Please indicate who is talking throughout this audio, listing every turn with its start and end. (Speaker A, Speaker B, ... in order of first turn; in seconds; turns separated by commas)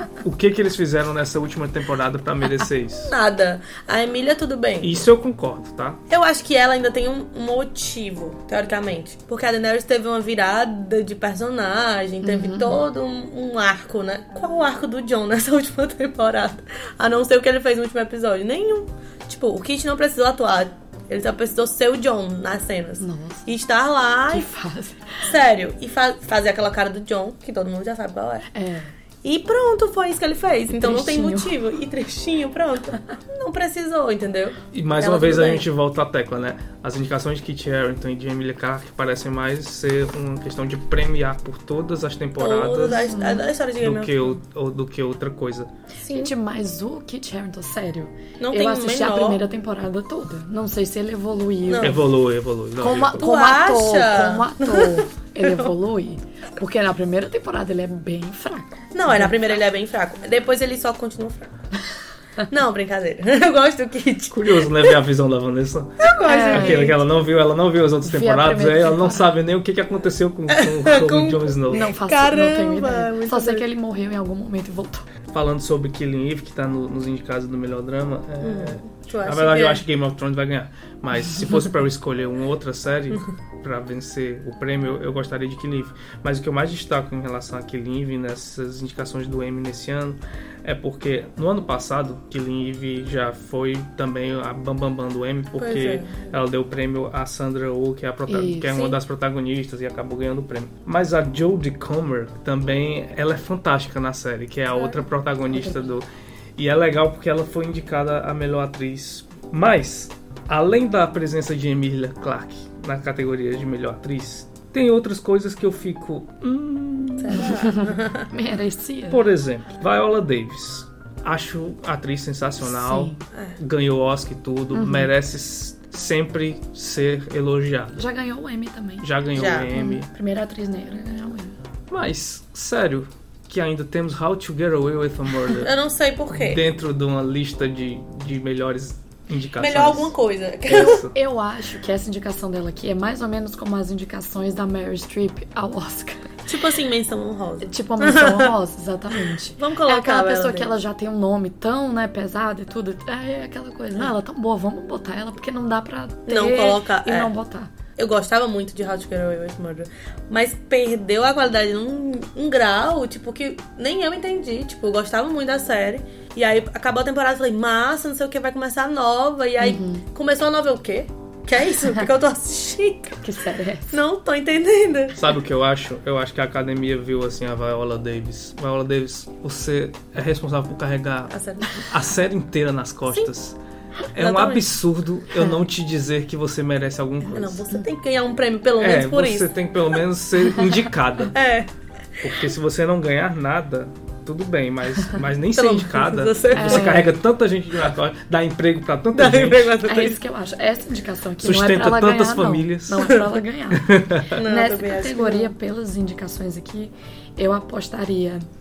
Speaker A: 0.2-3.1, Speaker B: 3.0-5.1, Speaker A: 4.8-6.0, Speaker B: 6.1-24.5, Speaker C: 12.2-12.8, Speaker C: 23.0-23.5, Speaker C: 24.3-25.3, Speaker B: 25.2-28.5, Speaker C: 28.5-28.9, Speaker B: 29.2-35.7, Speaker C: 30.7-31.6, Speaker A: 34.7-43.1, Speaker B: 42.4-44.4, Speaker C: 42.9-43.5, Speaker A: 43.8-45.7, Speaker B: 46.0-46.3, Speaker C: 46.1-52.0, Speaker B: 48.4-49.4, Speaker B: 51.6-52.0, Speaker A: 51.8-53.2, Speaker C: 52.8-59.4, Speaker B: 53.2-55.7, Speaker B: 58.9-61.5, Speaker B: 62.5-65.0, Speaker A: 64.3-71.9, Speaker B: 66.0-67.0, Speaker C: 66.2-67.0, Speaker C: 68.0-69.3, Speaker B: 70.5-73.7, Speaker C: 71.7-75.1, Speaker A: 75.3-106.0, Speaker B: 78.4-79.8, Speaker B: 95.6-96.3, Speaker C: 98.3-99.0, Speaker C: 105.5-106.0, Speaker A: 106.6-117.7, Speaker B: 117.2-118.3, Speaker C: 117.4-119.3, Speaker A: 119.1-128.0, Speaker C: 122.6-123.2, Speaker C: 124.7-125.1, Speaker C: 128.0-129.1, Speaker A: 129.0-130.1, Speaker B: 129.3-129.7, Speaker C: 129.7-131.6, Speaker A: 131.9-135.7, Speaker B: 135.5-136.6, Speaker A: 136.3-140.1, Speaker B: 139.6-141.1, Speaker A: 140.7-141.1, Speaker C: 141.0-146.3, Speaker B: 146.5-148.5, Speaker C: 147.6-157.7, Speaker B: 149.2-150.7, Speaker B: 156.3-157.3, Speaker B: 158.0-173.2, Speaker C: 169.6-170.1, Speaker C: 173.2-174.0, Speaker B: 173.9-175.2, Speaker A: 175.2-183.6, Speaker B: 181.3-181.9, Speaker A: 184.2-187.6, Speaker B: 184.2-184.7, Speaker B: 187.3-189.6, Speaker A: 188.8-191.3, Speaker B: 191.3-192.4, Speaker A: 192.2-199.8, Speaker B: 195.5-197.0, Speaker C: 196.5-197.1, Speaker B: 199.1-200.2, Speaker C: 199.8-208.5, Speaker A: 201.4-203.1, Speaker B: 203.0-203.3, Speaker A: 203.7-204.4, Speaker B: 204.3-205.5